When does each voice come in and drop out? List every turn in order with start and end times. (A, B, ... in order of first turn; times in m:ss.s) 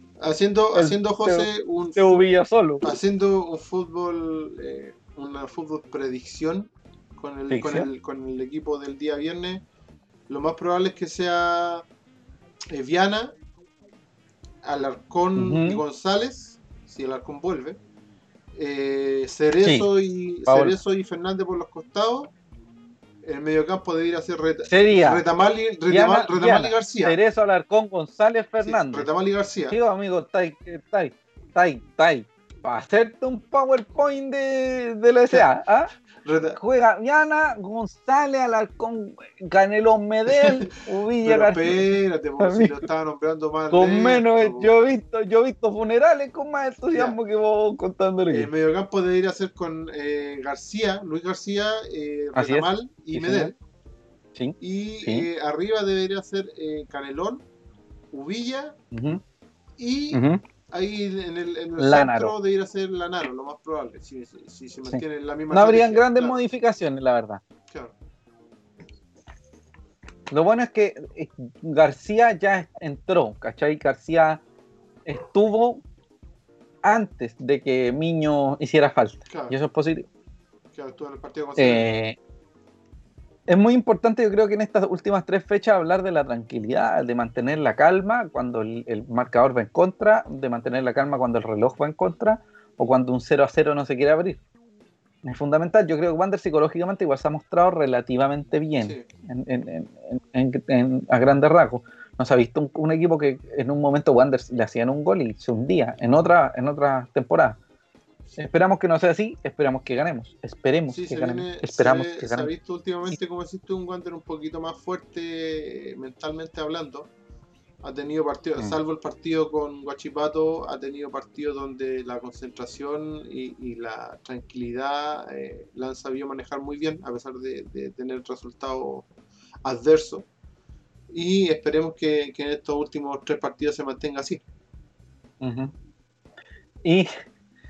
0:00.2-0:02.1 A
0:00.7-0:02.9 B
0:02.8-0:09.6 A
0:07.5-0:07.9 B
0:10.3-0:11.8 A
0:12.7-0:13.4 A
0:14.6-0:17.8 A
0:15.4-0:15.8 B
0:18.5-0:22.3 A
0:20.5-0:20.8 B
0:23.2-0:27.2 A
0:24.7-0:25.2 B
0:25.9-0:29.1 B
0:28.6-0:29.8 A
0:29.7-0:35.9 B
0:36.2-0:36.6 A
0:36.5-0:42.8 B
0:40.3-0:40.6 A
0:41.2-0:44.7 A
0:43.7-0:48.5 B
0:46.9-0:47.2 A
0:48.3-0:53.6 A
0:52.3-0:53.5 B
0:54.4-0:55.3 B
0:54.6-0:57.4 A
0:58.1-0:58.8 A
0:58.9-0:59.2 B
0:59.8-1:06.4 A
1:00.1-1:00.4 B
1:01.8-1:02.3 B
1:04.9-1:07.4 B
1:10.3-1:14.4 B
1:15.0-1:15.8 B
1:16.8-1:20.1 B
1:19.3-1:19.5 A
1:20.7-1:21.9 A
1:21.6-1:22.2 B
1:23.5-1:34.4 B
1:35.2-1:47.6 B
1:38.8-1:39.1 A
1:48.4-1:52.5 B
1:50.9-1:57.1 A
1:57.8-2:09.1 A
2:09.6-2:10.3 A
2:11.1-2:14.4 A
2:15.4-2:15.7 B
2:16.8-2:17.1 B